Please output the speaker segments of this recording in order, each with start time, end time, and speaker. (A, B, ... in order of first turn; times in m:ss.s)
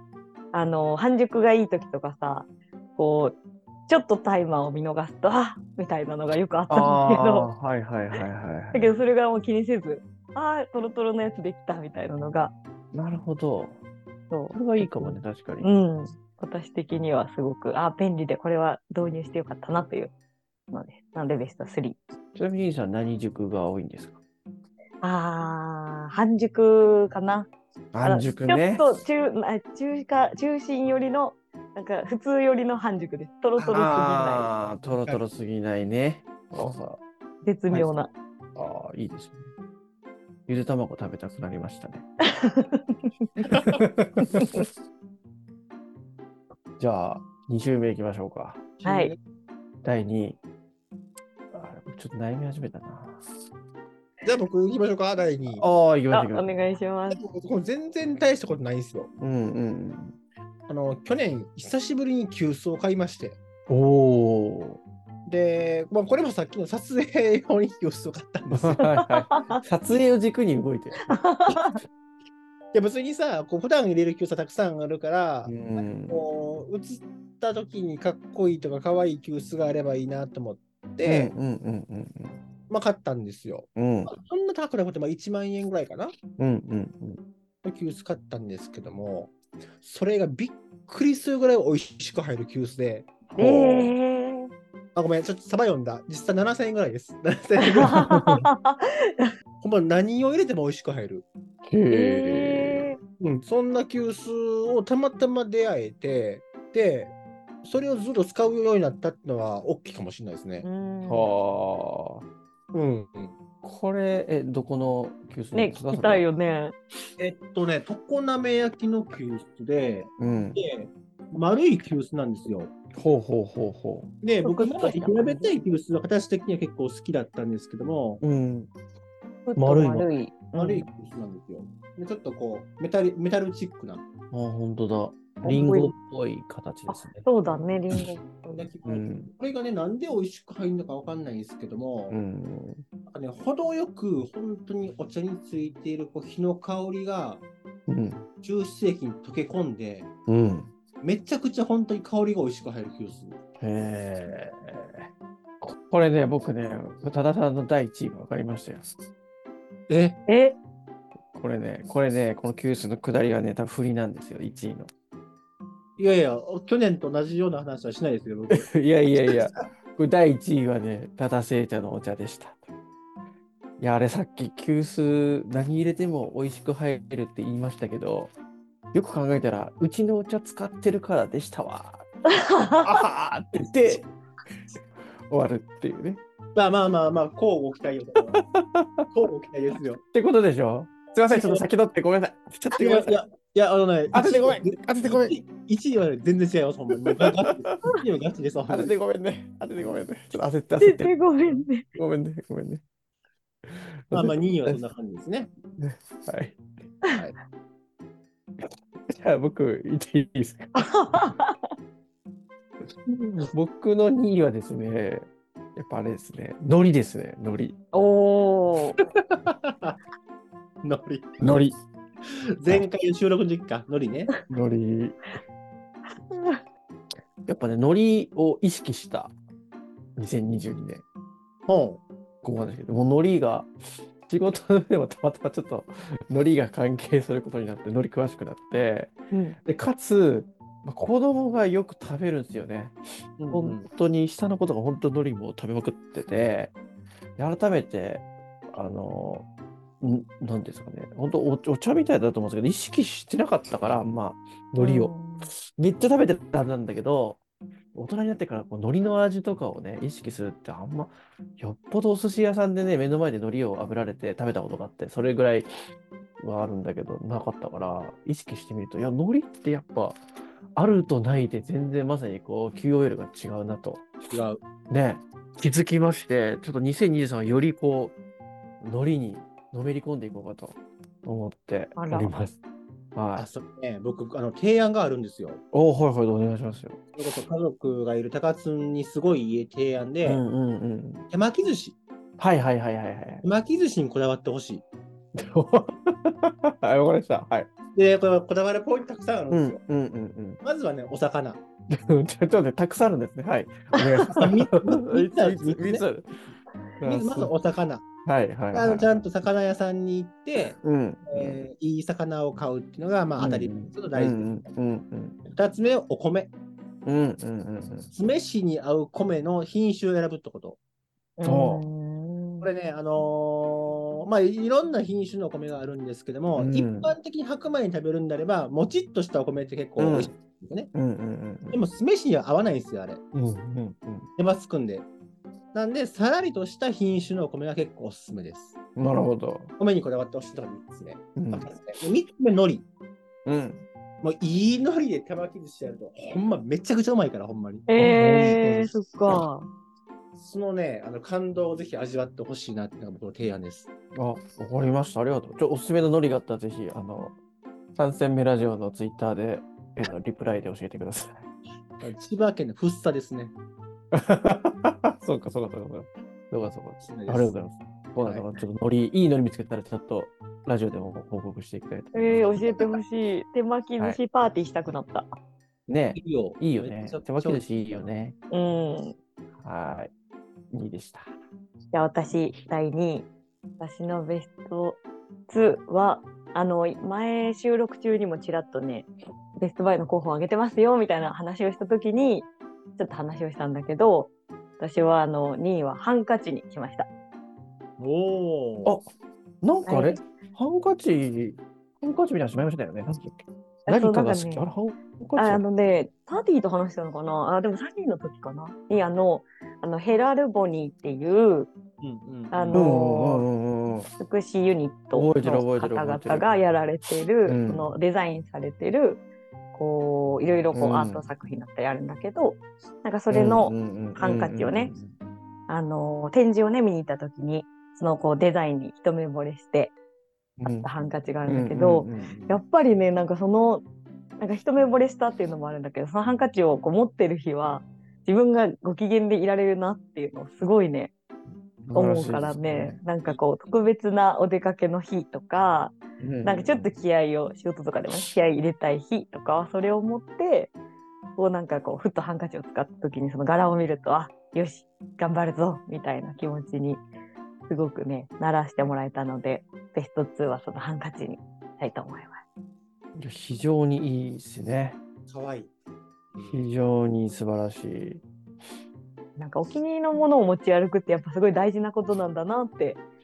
0:00.5-0:07.5 A
0:06.7-0:08.9 B
0:08.7-0:12.5 A
0:12.9-0:13.8 B
0:14.3-0:20.1 A
0:14.5-0:15.7 B
0:20.7-0:22.0 A
0:22.3-0:24.2 B
0:25.0-0:27.5 A
0:27.9-0:28.9 B
0:28.0-0:34.5 A
0:33.7-0:37.0 B
0:34.9-0:35.2 C
0:37.4-0:38.1 A
0:38.6-0:39.5 B
0:40.5-0:42.0 B
0:42.2-0:43.3 A
0:43.5-0:44.7 B
0:44.2-0:44.5 A
0:46.8-0:48.8 B
0:48.8-0:49.2 C
0:48.8-0:49.1 A
0:49.8-0:50.4 B
0:51.5-0:53.3 B
0:54.2-0:55.6 C
0:55.6-0:56.5 B
0:56.1-0:57.2 A
0:57.1-0:59.1 C
0:59.2-1:00.2 B
1:00.7-1:03.4 C
1:03.7-1:04.8 B
1:05.3-1:08.9 C
1:08.5-1:11.5 B
1:09.0-1:09.6 A
1:11.1-1:11.8 A
1:12.7-1:21.3 C
1:15.4-1:16.2 B
1:21.0-1:22.4 B
1:22.7-1:26.2 C
1:23.8-1:24.1 B
1:26.4-1:27.2 B
1:27.6-1:33.3 C
1:33.3-1:33.9 B
1:33.4-1:34.5 A
1:35.0-1:38.2 C
1:37.6-1:39.3 A
1:39.6-1:41.3 C
1:41.6-1:43.0 B
1:41.9-1:43.0 A
1:43.2-1:50.7 C
1:50.6-1:51.3 A
1:51.0-1:52.2 B
1:52.7-1:53.4 C
1:53.6-1:56.3 B
1:55.5-1:56.8 A
1:57.2-2:02.7 C
2:00.2-2:00.6 B
2:03.0-2:04.1 B
2:04.2-2:08.2 C
2:04.4-2:05.5 A
2:08.2-2:08.7 B
2:09.5-2:10.9 A
2:09.6-2:10.1 B
2:10.6-2:14.1 C
2:14.3-2:17.4 B
2:15.4-2:15.9 A
2:16.9-2:18.7 A
2:18.6-2:22.2 C
2:18.8-2:19.3 B
2:22.1-2:22.8 B
2:23.1-2:27.4 C
2:27.9-2:28.3 B
2:28.4-2:30.1 C
2:30.3-2:30.7 B
2:31.0-2:33.4 C
2:33.6-2:35.1 B
2:35.6-2:39.0 B
2:39.9-2:40.2 C
2:40.3-2:40.6 A
2:41.3-2:44.9 B
2:46.0-2:48.7 C
2:48.5-2:52.6 B
2:53.8-2:58.3 B
2:58.9-3:02.0 B
3:02.3-3:02.9 A
3:02.8-3:04.0 B
3:05.3-3:06.2 B
3:06.6-3:08.4 C
3:08.3-3:09.1 B
3:09.1-3:10.0 C
3:10.1-3:13.2 B
3:11.3-3:11.6 C
3:12.7-3:18.9 C
3:14.1-3:15.4 B
3:17.0-3:18.0 B
3:18.7-3:22.8 B
3:20.8-3:21.9 A
3:23.7-3:24.8 B
3:24.1-3:25.5 C
3:25.8-3:26.6 B
3:28.6-3:30.9 B
3:30.8-3:31.7 A
3:33.1-3:37.8 B
3:37.9-3:39.0 A
3:39.0-3:40.0 C
3:40.8-3:41.7 C
3:41.4-3:41.8 B
3:42.2-3:44.3 C
3:44.5-3:45.3 B
3:46.3-3:46.6 A
3:47.5-3:49.3 B
3:50.2-3:51.0 B
3:51.7-3:52.0 C
3:52.4-3:53.7 B
3:54.2-3:59.1 B
3:59.3-3:59.6 A
3:59.6-4:03.0 B
4:03.4-4:03.8 C
4:03.5-4:06.7 B
4:07.4-4:09.5 B
4:10.0-4:17.4 B
4:14.8-4:15.5 A
4:17.9-4:25.7 B
4:26.4-4:30.2 B
4:30.8-4:34.1 B
4:34.3-4:34.6 C
4:34.9-4:38.2 B
4:38.8-4:42.6 B
4:42.0-4:42.4 A
4:43.2-4:43.5 B
4:43.4-4:45.6 C
4:45.7-4:47.1 B
4:47.2-4:50.4 C
4:50.2-4:51.3 B
4:51.3-4:52.0 C
4:52.4-4:53.4 B
4:53.4-4:54.8 C
4:55.4-4:57.7 B
4:58.0-4:59.8 C
4:59.5-5:00.6 B
5:00.6-5:01.6 C
5:01.9-5:06.3 B
5:04.3-5:06.0 C
5:07.0-5:07.5 B
5:07.0-5:08.1 C
5:08.2-5:09.1 B
5:08.7-5:14.6 C
5:10.6-5:11.6 B
5:13.4-5:15.4 B
5:15.5-5:16.5 C
5:17.0-5:18.1 B
5:18.1-5:20.8 C
5:21.4-5:22.7 A
5:21.4-5:21.9 B
5:22.6-5:30.9 C
5:26.6-5:27.2 B
5:30.0-5:30.3 B
5:30.9-5:31.8 B
5:31.7-5:33.2 C
5:33.3-5:34.3 B
5:34.4-5:35.1 C
5:35.7-5:38.8 C
5:39.0-5:39.7 B
5:39.8-5:42.9 C
5:41.4-5:41.7 B
5:43.5-5:43.8 B
5:44.2-5:48.7 C
5:47.9-5:49.7 A
5:48.0-5:49.4 B
5:50.4-5:53.9 C
5:54.2-5:57.4 B
5:58.0-6:01.5 B
6:02.0-6:03.5 C
6:04.1-6:12.7 B
6:07.0-6:07.5 C
6:08.2-6:08.5 C
6:12.1-6:15.3 A
6:15.9-6:18.4 B
6:16.2-6:17.9 C
6:18.5-6:19.2 A
6:19.6-6:20.1 B
6:20.7-6:21.3 B
6:21.9-6:23.3 A
6:23.8-6:37.1 A
6:38.0-6:39.0 C
6:39.6-6:45.6 B
6:39.9-6:40.2 A
6:43.9-6:44.7 A
6:45.4-6:51.7 A
6:52.0-6:52.8 C
6:52.5-6:53.5 A
6:52.7-6:54.1 B
6:54.2-7:04.9 A
6:55.1-6:56.5 B
6:57.4-6:57.9 B
7:00.7-7:01.3 B
7:03.3-7:05.1 B
7:05.7-7:09.9 A
7:10.6-7:10.9 B
7:10.7-7:13.8 A
7:11.5-7:12.6 B
7:14.4-7:21.1 A
7:21.9-7:23.0 B
7:21.9-7:30.7 A
7:26.2-7:26.9 B
7:31.4-7:37.0 A
7:37.7-7:42.4 A
7:43.2-7:45.0 B
7:45.3-7:45.7 C
7:46.3-7:46.6 C
7:46.5-7:48.2 B
7:49.4-7:53.0 A